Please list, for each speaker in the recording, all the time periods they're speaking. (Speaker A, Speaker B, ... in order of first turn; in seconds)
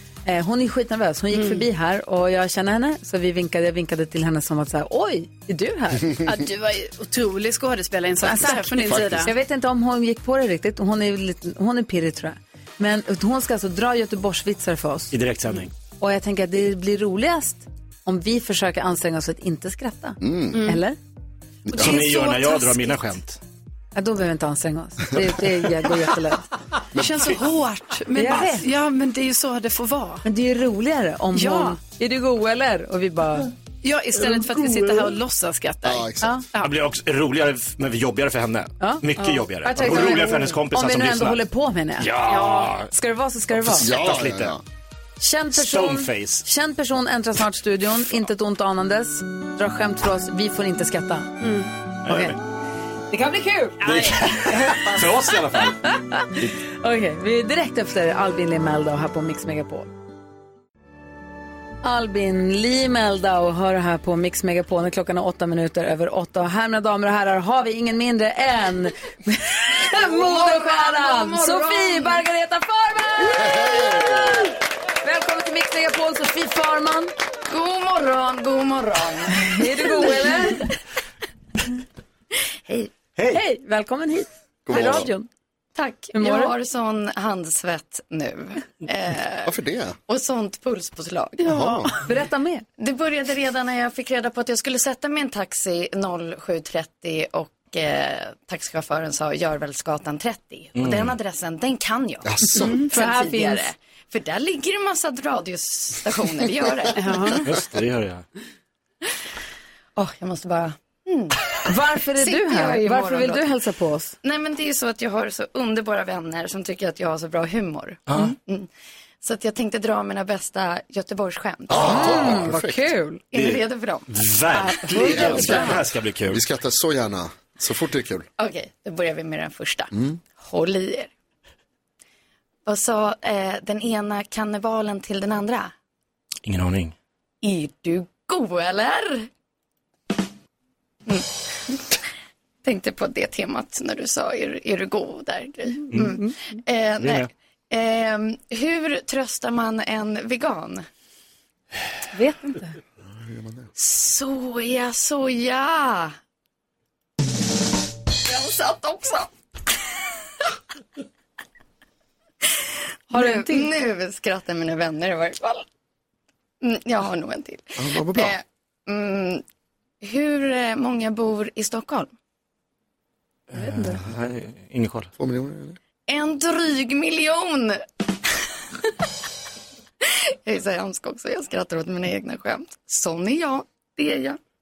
Speaker A: 0.3-6.2, 8.2-15.2, 16.0-21.0, 22.0-22.4, 23.9-26.5, 28.1-28.7, 30.2-33.5, 38.8-43.9, 45.2-51.4, 52.1-52.4, 53.1-53.8, 54.5-54.8, 55.6-59.9, 61.8-77.1, 79.3-80.7, 83.3-85.3, 86.1-86.5, 91.5-92.7, 102.7-103.7, 111.7-114.2, 121.8-123.2, 124.8-125.8, 152.1-152.7, 163.1-163.7, 173.5-174.0
Speaker B: 1.3-1.6, 6.2-9.3, 21.8-22.7, 26.9-30.3, 31.3-31.8, 33.8-36.7, 39.8-40.4, 42.3-42.7, 51.4-51.7, 53.8-54.8, 102.6-102.9, 107.0-107.4
Speaker C: 8.9-9.3, 20.2-20.7, 21.7-21.9, 35.9-36.4, 43.8-44.6, 73.4-74.2, 84.7-85.1, 89.5-90.0, 91.5-91.9, 102.2-102.8, 121.7-122.9, 125.0-128.3, 129.9-130.2, 153.3-153.7, 167.8-168.4, 175.2-175.8
Speaker D: 15.1-15.7, 21.7-23.4, 36.6-41.4, 42.0-42.9, 43.6-44.6, 45.5-46.5, 52.1-52.4, 53.8-55.8, 83.2-83.4, 100.8-101.2, 107.4-108.2, 118.1-118.3, 121.7-122.5, 123.3-126.4, 136.4-136.9, 145.9-146.2, 147.0-147.3, 173.5-175.1
Speaker E: 69.9-72.2, 77.5-80.5, 85.8-89.5, 90.1-91.5, 92.8-107.4, 110.0-111.5, 112.1-113.5, 114.2-118.7, 119.2-122.0, 123.3-124.1, 128.4-131.1, 132.7-135.7, 137.4-139.3, 141.1-141.8, 142.6-150.9, 153.8-156.1, 158.2-159.3, 163.1-165.7, 166.6-169.4, 170.0-172.1, 176.1-177.8, 180.1-184.4